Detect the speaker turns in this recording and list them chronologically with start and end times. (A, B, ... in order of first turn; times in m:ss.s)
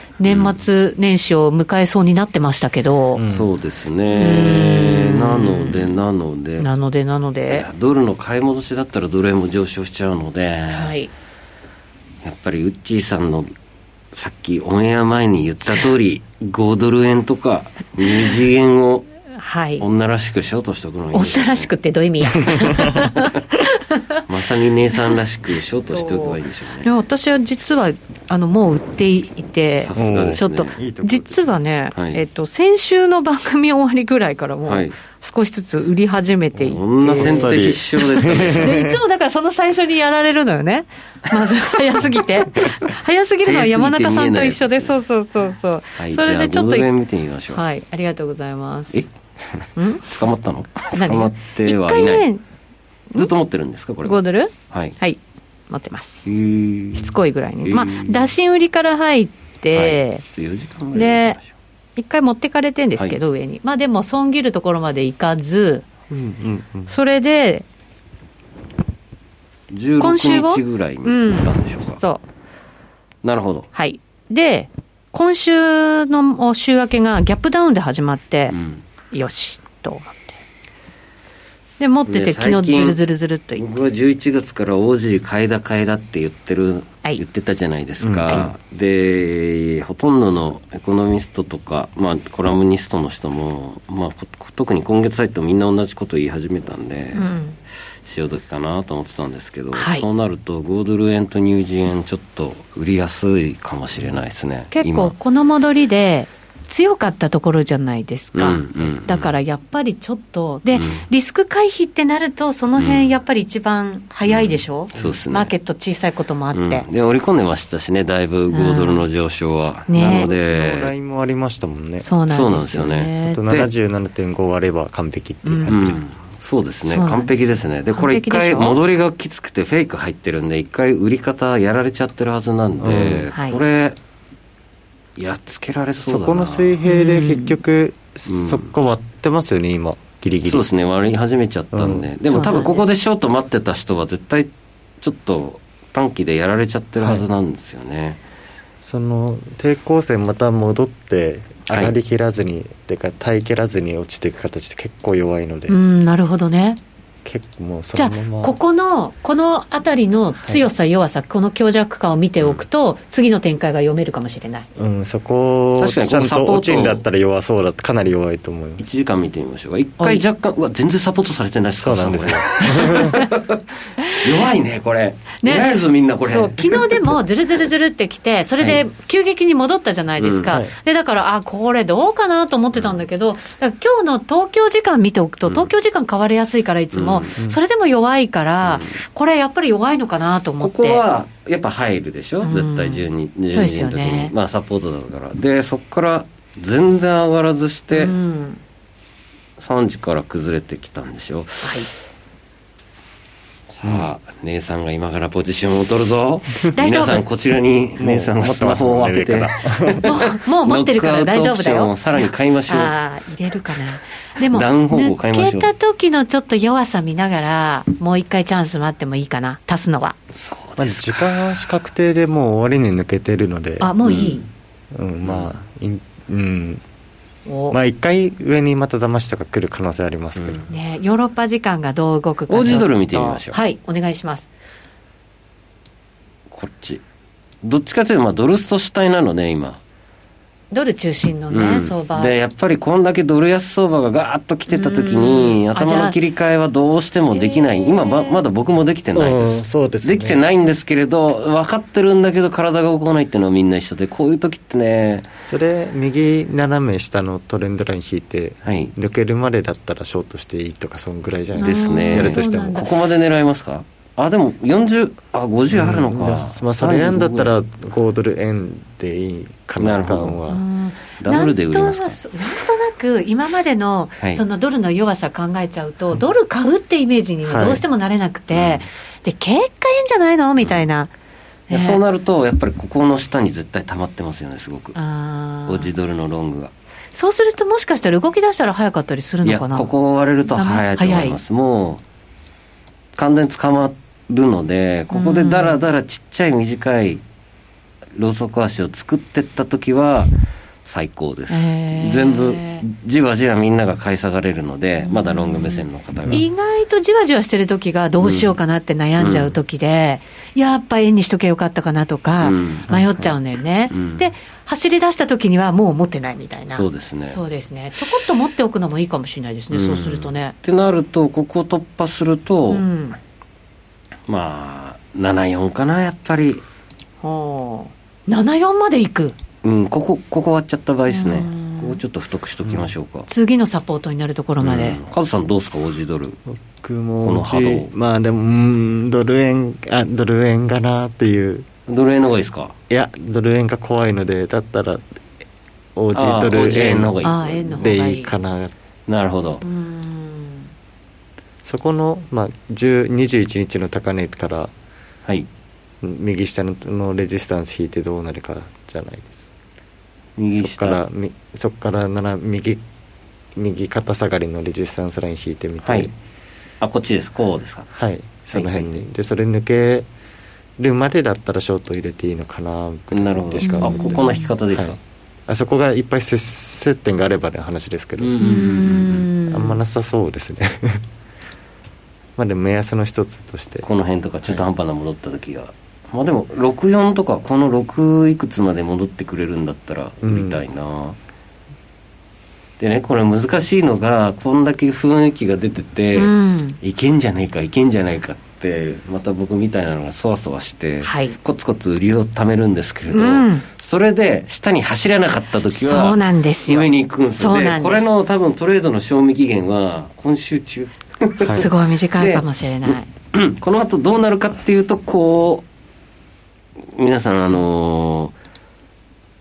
0:00.2-0:03.2 A
0:00.3-0:00.6 B
0:03.2-0:03.5 C
0:03.2-0:06.7 B
0:04.1-0:06.0 A
0:06.6-0:07.7 A
0:07.5-0:10.9 B
0:10.7-0:11.1 A
0:12.2-0:13.5 B
0:14.1-0:19.1 B
0:19.4-0:19.8 A
0:19.8-0:21.7 B
0:21.1-0:24.2 A
0:22.5-0:23.1 C
0:24.3-0:26.9 B
0:25.8-0:46.9 A
0:29.8-0:30.8 B
0:30.0-0:31.6 C
0:31.9-0:32.2 B
0:34.6-0:35.0 B
0:36.6-0:38.8 B
0:37.1-0:39.0 C
0:43.4-0:44.9 B
0:46.0-0:47.6 B
0:47.5-0:49.1 A
0:48.9-0:52.3 B
0:49.8-0:50.0 A
0:50.9-0:52.4 A
0:53.1-0:55.0 B
0:54.0-0:55.2 A
0:55.7-0:56.3 A
0:56.3-0:58.3 B
0:56.9-1:00.2 A
0:59.7-1:01.5 B
1:00.9-1:01.4 A
1:02.0-1:05.9 A
1:06.1-1:06.9 C
1:06.9-1:07.6 A
1:09.7-1:12.0 B
1:10.0-1:12.2 A
1:13.2-1:13.7 B
1:13.7-1:18.6 A
1:18.5-1:18.8 B
1:19.1-1:20.4 A
1:21.8-1:23.7 A
1:22.1-1:23.0 B
1:23.6-1:37.3 B
1:28.0-1:28.5 C
1:37.1-1:37.6 A
1:38.0-1:45.1 B
1:39.7-1:40.1 A
1:44.7-1:56.9 A
1:48.3-1:49.3 B
1:50.7-1:51.0 B
1:52.8-1:53.2 B
1:54.3-1:55.5 B
1:56.5-2:00.9 B
1:58.5-1:59.1 A
1:59.9-2:00.3 A
2:00.0-2:02.1 C
2:02.0-2:03.4 A
2:02.3-2:03.7 B
2:03.3-2:06.0 C
2:05.4-2:05.7 A
2:05.7-2:14.0 B
2:06.8-2:08.8 A
2:12.8-2:13.3 C
2:13.3-2:13.6 A
2:15.2-2:16.8 B
2:16.0-2:20.6 C
2:16.8-2:17.6 A
2:18.3-2:18.7 B
2:20.4-2:28.2 B
2:21.7-2:22.1 C
2:22.3-2:22.9 A
2:28.8-2:35.8 C
2:31.7-2:32.0 B
2:35.7-2:36.8 A
2:37.2-2:38.6 C
2:38.0-2:44.7 A
2:44.8-2:48.8 C
2:45.8-2:47.0 B
2:48.8-2:53.6 B
2:51.8-2:53.2 C
2:52.8-2:53.3 A
2:54.2-2:57.1 B
2:55.4-3:11.0 A
3:00.2-3:00.6 B
3:06.9-3:07.3 B
3:08.6-3:09.0 B
3:10.6-3:18.1 B
3:12.4-3:14.3 A
3:17.9-3:18.6 A
3:19.6-3:21.8 B
3:21.6-3:21.9 A
3:23.7-3:32.9 B
3:26.7-3:27.2 A
3:28.0-3:30.1 C
3:30.0-3:40.2 A
3:34.5-3:35.7 B
3:40.3-3:41.4 B
3:40.8-3:43.9 C
3:43.8-3:44.5 A
3:44.0-3:44.4 B
3:44.9-3:46.8 C
3:45.2-3:45.5 B
3:47.4-3:47.8 A
3:47.7-3:50.6 C
3:50.4-3:50.7 B
3:50.7-3:54.5 A
3:52.5-3:53.6 B
3:56.5-3:57.0 B
3:57.6-3:59.8 B
4:00.7-4:02.3 A
4:01.5-4:15.3 B
4:04.7-4:06.2 A
4:07.3-4:08.4 A
4:09.1-4:10.4 C
4:15.4-4:22.8 C
4:18.6-4:18.9 B
4:21.6-4:22.9 A
4:21.6-4:27.5 B
4:25.7-4:30.6 C
4:29.8-4:30.4 B
4:30.5-4:41.1 A
4:31.2-4:32.3 B
4:37.4-4:37.8 C
4:38.5-4:38.8 B
4:40.6-4:40.9 B
4:41.7-4:42.0 A
4:41.7-4:45.0 B
4:44.9-4:45.9 A
4:45.6-4:46.7 B
4:47.1-4:49.9 A
4:49.4-4:52.0 B
4:50.5-4:51.4 A
4:53.2-4:57.2 B
4:55.1-4:55.8 A
4:58.2-5:00.3 B
5:00.8-5:06.4 B
5:01.5-5:02.8 A
5:05.0-5:20.5 A
5:08.2-5:08.6 B
5:09.2-5:09.5 B
5:12.4-5:12.9 B
5:12.9-5:13.2 C
5:13.9-5:14.3 B
5:16.7-5:17.4 B
5:19.7-5:22.8 B
5:22.7-5:23.2 A
5:24.3-5:26.6 B
5:27.2-5:29.4 A
5:29.6-5:33.3 B
5:31.1-5:32.0 A
5:33.3-5:35.0 A
5:34.6-5:36.4 B
5:36.5-5:41.7 C
5:37.2-5:37.9 B
5:41.9-5:42.8 B
5:42.9-5:45.1 C
5:46.0-5:47.2 C
5:46.1-5:47.9 B
5:47.2-5:48.3 A
5:47.8-5:48.7 C
5:49.1-5:49.6 B
5:49.6-5:50.7 A
5:51.6-5:54.7 C
5:56.0-5:59.5 C
6:00.4-6:01.0 B
6:00.5-6:02.8 C
6:03.6-6:06.1 C
6:05.8-6:06.1 B
6:06.8-6:07.9 B
6:07.9-6:10.1 C
6:08.5-6:09.0 B
6:10.8-6:18.4 C
6:13.1-6:15.0 B
6:13.6-6:14.5 A
6:18.2-6:19.3 B
6:18.4-6:19.8 A
6:19.5-6:21.0 C
6:22.4-6:23.9 C
6:23.8-6:31.2 B
6:30.2-6:30.6 C
6:32.8-6:55.6 B
6:36.2-6:36.8 A
6:41.0-6:41.4 A
6:43.1-6:43.6 A
6:45.8-6:48.1 A
6:51.4-6:51.7 C
6:51.5-6:53.1 A
6:56.9-6:58.3 B